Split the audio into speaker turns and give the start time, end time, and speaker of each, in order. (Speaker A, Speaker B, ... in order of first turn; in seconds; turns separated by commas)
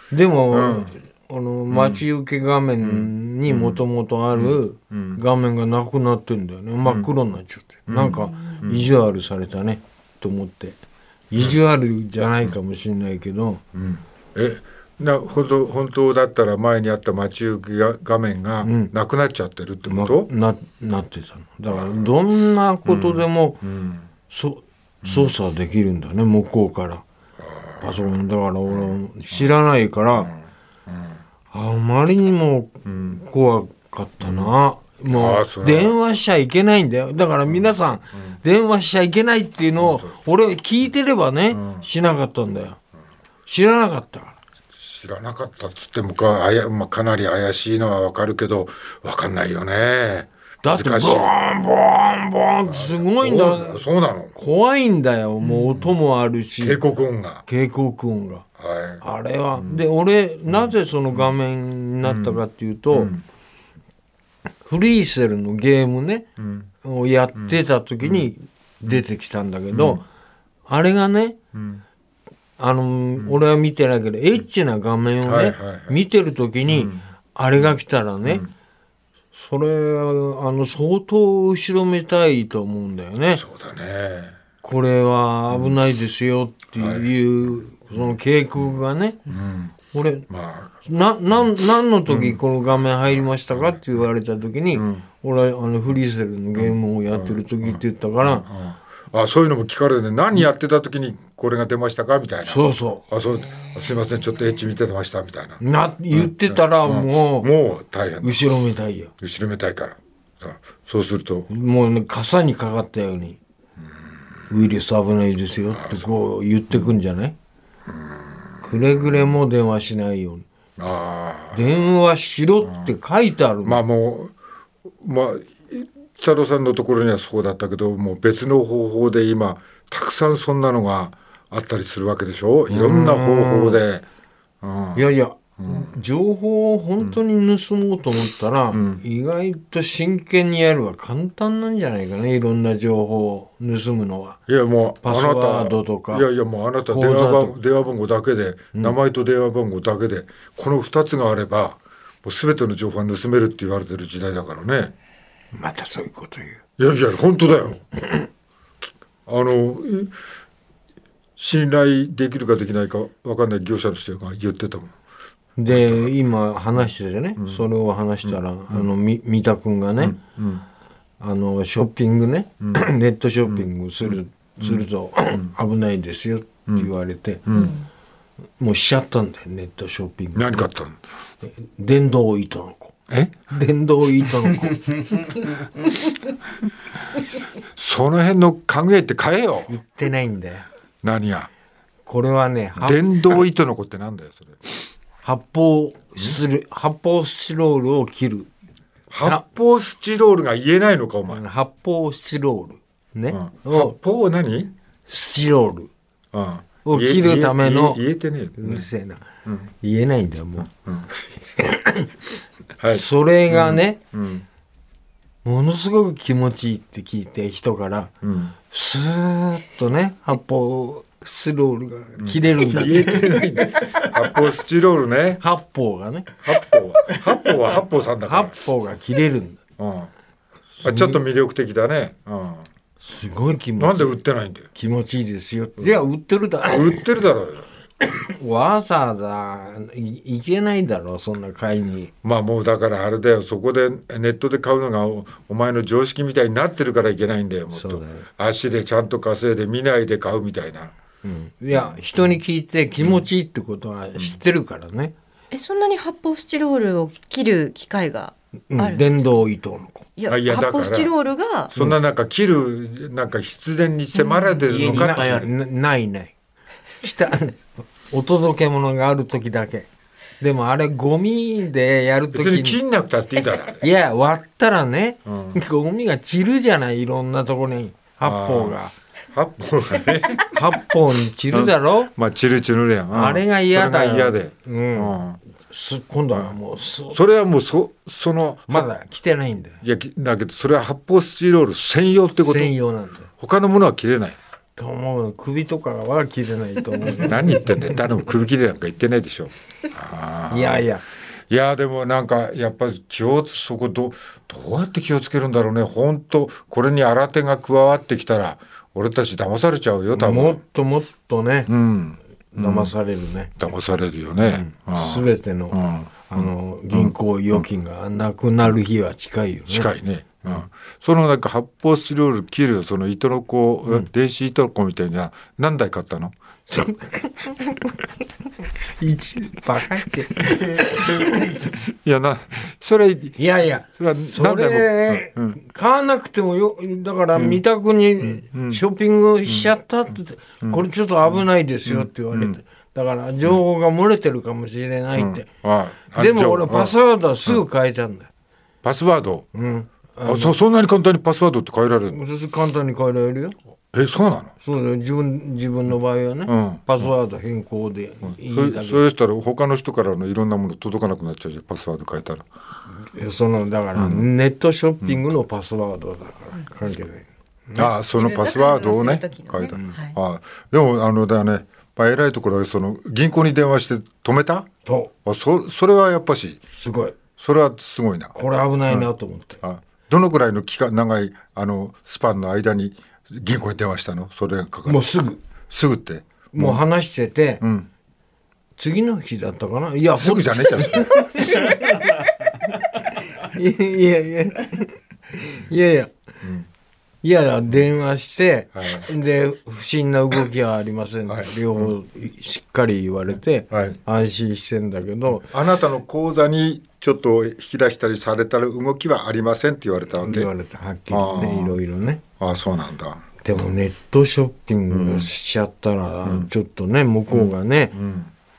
Speaker A: 0.1-10.8, Speaker B: 0.5-0.9, Speaker B: 1.7-2.0, Speaker B: 2.8-5.2, Speaker B: 6.8-7.1, Speaker B: 7.9-8.9, Speaker A: 11.3-13.6, Speaker B: 13.7-20.3, Speaker A: 18.6-18.9, Speaker A: 19.9-23.6, Speaker B: 21.7-22.1, Speaker B: 22.9-24.1, Speaker A: 24.3-27.0, Speaker B: 25.0-25.4, Speaker B: 27.4-28.1, Speaker A: 27.8-30.3, Speaker B: 28.7-29.5, Speaker B: 30.1-31.2, Speaker A: 31.5-42.8, Speaker B: 32.9-33.1, Speaker B: 34.2-34.5, Speaker B: 35.1-36.0, Speaker B: 37.5-38.4, Speaker B: 39.8-40.2, Speaker B: 41.5-41.9, Speaker A: 43.5-44.4, Speaker B: 44.8-51.3, Speaker A: 50.6-53.8, Speaker B: 52.6-54.4, Speaker A: 54.4-56.8, Speaker B: 55.4-55.9, Speaker B: 56.6-57.5, Speaker A: 57.5-58.5, Speaker B: 58.6-59.0, Speaker A: 59.0-63.1, Speaker B: 59.6-59.8, Speaker B: 60.5-61.4, Speaker B: 62.0-62.4, Speaker B: 62.9-63.2, Speaker A: 64.7-66.3, Speaker B: 66.4-66.7, Speaker A: 66.8-70.0, Speaker B: 67.4-68.3, Speaker B: 69.7-70.0, Speaker A: 70.7-71.4, Speaker B: 71.5-71.8, Speaker A: 72.6-78.5, Speaker B: 75.2-76.0, Speaker B: 76.7-77.0, Speaker B: 78.2-78.5, Speaker A: 79.3-83.4, Speaker B: 83.3-84.3, Speaker A: 84.6-89.4, Speaker B: 85.5-85.8, Speaker B: 86.8-89.8, Speaker A: 89.9-90.3, Speaker B: 90.3-90.8, Speaker A: 90.8-98.5, Speaker B: 92.1-92.4, Speaker B: 93.0-94.1, Speaker B: 94.7-95.0, Speaker B: 96.5-108.5, Speaker A: 102.4-103.0, Speaker A: 105.6-107.5, Speaker A: 108.2-109.1, Speaker B: 109.2-111.5, Speaker A: 111.5-113.4, Speaker A: 114.5-117.3, Speaker B: 115.7-116.9, Speaker B: 117.9-119.4, Speaker A: 118.6-120.5, Speaker B: 120.8-121.9, Speaker A: 121.5-123.8, Speaker B: 122.6-122.9, Speaker B: 123.7-124.3, Speaker B: 125.0-134.1, Speaker A: 132.7-133.8, Speaker B: 134.6-136.0, Speaker A: 134.9-144.4, Speaker B: 138.7-139.0, Speaker B: 144.5-154.9, Speaker A: 145.0-146.3, Speaker A: 146.9-147.6, Speaker A: 155.5-156.6, Speaker B: 156.8-157.9, Speaker B: 159.3-160.2, Speaker B: 161.4-164.9, Speaker A: 165.6-170.2, Speaker B: 165.7-166.1, Speaker B: 167.4-167.6, Speaker B: 168.2-168.9, Speaker B: 170.0-170.7, Speaker A: 171.2-177.4, Speaker B: 173.5-175.5, Speaker B: 177.5-177.8, Speaker A: 178.6-180.7, Speaker B: 180.3-181.0, Speaker A: 181.6-185.3, Speaker B: 183.1-183.4, Speaker B: 187.7-189.8, Speaker A: 189.7-190.7, Speaker B: 191.0-191.5, Speaker A: 192.1-193.2, Speaker B: 192.8-194.6, Speaker A: 195.2-198.5, Speaker B: 199.1-201.4, Speaker A: 201.3-203.9, Speaker B: 203.3-204.7, Speaker A: 205.1-205.9, Speaker B: 206.3-208.9, Speaker A: 206.8-208.0, Speaker A: 208.6-209.2, Speaker B: 209.4-209.7, Speaker A: 209.8-210.7, Speaker B: 210.6-211.1, Speaker A: 211.6-212.1, Speaker B: 212.8-214.5, Speaker A: 212.9-214.0, Speaker A: 215.4-218.1, Speaker B: 218.2-218.6, Speaker A: 218.7-223.5, Speaker B: 222.2-225.4, Speaker A: 225.4-226.3, Speaker B: 226.4-228.6, Speaker A: 228.3-229.6, Speaker B: 229.8-230.1, Speaker A: 230.8-231.2, Speaker B: 230.8-232.7, Speaker A: 233.0-234.2, Speaker B: 233.8-234.7, Speaker A: 234.7-237.1, Speaker B: 235.8-236.1, Speaker B: 236.7-237.7, Speaker A: 238.0-242.1, Speaker B: 242.2-250.9, Speaker A: 247.7-248.3, Speaker A: 251.2-255.1, Speaker B: 251.7-252.4, Speaker B: 253.0-253.3, Speaker C: 255.5-259.1, Speaker A: 258.7-260.1, Speaker C: 260.2-261.7, Speaker B: 260.3-261.1, Speaker B: 261.7-265.5, Speaker A: 264.7-266.3, Speaker A: 267.0-269.9, Speaker A: 270.4-272.8, Speaker B: 272.3-273.9, Speaker A: 273.8-278.9, Speaker B: 275.3-275.6, Speaker B: 278.2-278.8, Speaker B: 279.3-280.6, Speaker A: 280.5-282.1, Speaker B: 281.5-285.4, Speaker A: 283.1-287.2, Speaker B: 287.1-288.9, Speaker A: 288.7-289.8, Speaker B: 289.8-292.8, Speaker A: 292.4-293.3, Speaker B: 293.4-294.4, Speaker A: 294.8-297.8, Speaker B: 297.0-300.9, Speaker A: 300.5-301.1, Speaker B: 301.5-310.6, Speaker A: 310.1-311.7, Speaker B: 311.7-312.9, Speaker A: 312.5-313.6, Speaker B: 313.6-317.7, Speaker A: 314.5-319.9, Speaker B: 319.7-326.3, Speaker A: 326.7-327.6, Speaker A: 329.0-331.7, Speaker B: 331.1-335.6, Speaker A: 333.4-345.5, Speaker B: 337.4-337.6, Speaker B: 338.2-338.8, Speaker B: 339.5-339.7, Speaker B: 340.6-342.6, Speaker B: 345.1-347.6, Speaker A: 346.1-348.3, Speaker B: 348.8-349.5, Speaker A: 349.5-350.6, Speaker B: 350.2-352.2, Speaker A: 352.1-353.6, Speaker B: 353.9-354.6, Speaker A: 354.6-359.0, Speaker B: 356.5-357.1, Speaker B: 358.2-362.4, Speaker A: 363.1-367.9, Speaker B: 363.9-364.3, Speaker B: 367.8-374.7, Speaker C: 368.2-370.1, Speaker A: 374.9-375.1, Speaker B: 375.2-376.6, Speaker A: 376.8-377.2, Speaker B: 377.4-378.4, Speaker A: 378.4-379.6, Speaker B: 379.6-385.1, Speaker A: 384.9-385.4, Speaker B: 385.7-386.8, Speaker A: 386.5-387.6, Speaker B: 387.6-387.9, Speaker A: 388.8-396.1, Speaker B: 390.1-391.1, Speaker B: 396.4-396.7, Speaker A: 397.2-405.5, Speaker B: 398.7-399.1, Speaker B: 401.3-401.9, Speaker B: 403.7-404.0, Speaker B: 405.4-410.5, Speaker A: 410.2-412.2, Speaker B: 411.1-411.8, Speaker B: 412.4-413.2, Speaker A: 413.4-417.9, Speaker B: 414.9-415.3, Speaker B: 416.2-416.5, Speaker B: 417.3-418.3